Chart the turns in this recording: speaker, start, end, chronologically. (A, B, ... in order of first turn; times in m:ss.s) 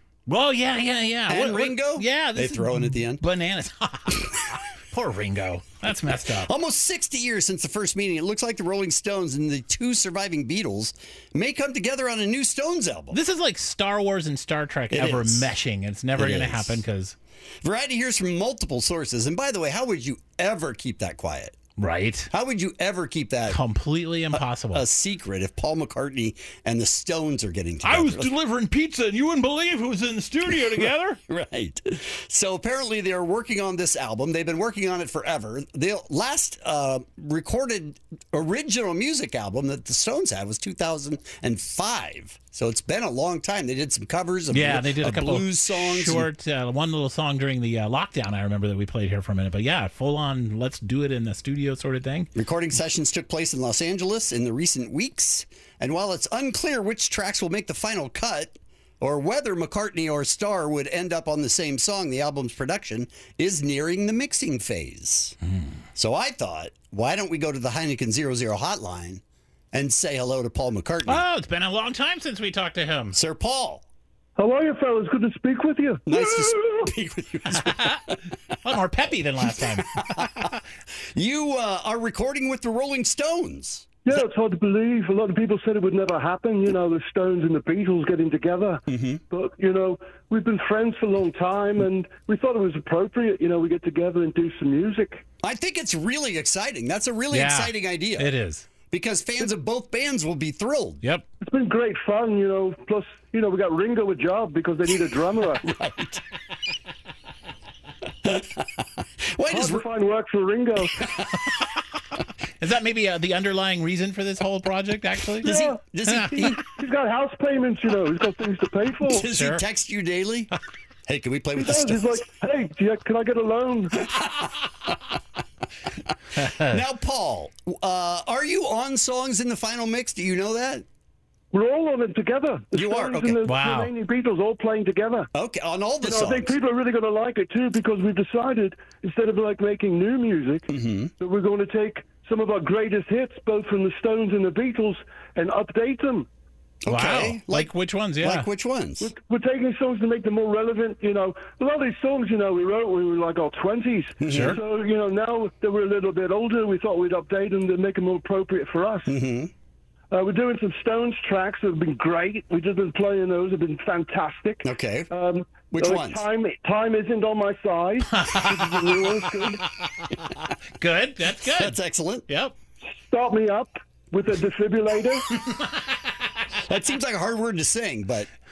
0:00.3-0:06.5 A
0:01.3-0:03.2 B
0:06.1-0:13.2 B
0:13.1-0:17.2 A
0:14.9-0:15.5 B
0:16.2-0:16.8 B
0:17.6-0:21.6 B
0:21.8-0:22.3 A
0:22.3-0:23.6 B
0:23.5-0:24.8 A
0:24.3-0:28.3 B
0:27.8-0:31.2 A
0:30.8-0:46.3 B
0:44.5-0:52.3 A
0:52.4-1:05.4 B
1:06.0-1:09.2 B
1:09.7-1:11.2 B
1:11.1-1:13.2 A
1:13.1-1:13.8 B
1:14.4-1:16.9 C
1:16.1-1:18.2 B
1:17.6-1:18.0 A
1:18.6-1:20.6 A
1:19.6-1:20.4 B
1:21.1-1:24.2 B
1:24.0-1:35.2 C
1:28.9-1:29.2 B
1:35.4-1:38.3 B
1:37.3-1:38.7 A
1:38.9-1:41.0 B
1:41.4-1:45.6 C
1:45.6-1:46.2 B
1:48.2-1:48.7 B
1:49.3-1:49.8 B
1:49.5-1:51.0 C
1:52.6-1:55.5 A
1:55.4-1:56.6 B
1:55.4-1:55.8 C
1:56.0-1:56.5 A
1:56.4-1:59.3 C
1:59.1-2:00.5 B
1:59.1-1:59.6 A
2:01.1-2:02.2 B
2:01.5-2:04.0 C
2:04.2-2:04.5 B
2:06.4-2:06.8 A
2:06.4-2:10.8 B
2:11.5-2:15.3 C
2:12.7-2:13.5 B
2:13.4-2:13.9 A
2:15.4-2:16.6 B
2:16.0-2:26.3 C
2:20.7-2:21.1 B
2:26.8-2:29.1 B
2:26.9-2:28.5 A
2:29.0-2:39.1 C
2:34.2-2:34.6 B
2:34.3-2:34.6 A
2:39.1-2:39.5 B
2:40.1-2:49.6 C
2:44.6-2:45.1 B
2:45.7-2:46.2 B
2:48.2-2:48.9 A
2:50.0-2:51.8 A
2:51.4-2:52.3 B
2:52.3-2:52.5 A
2:52.9-2:55.3 C
2:56.6-2:58.3 B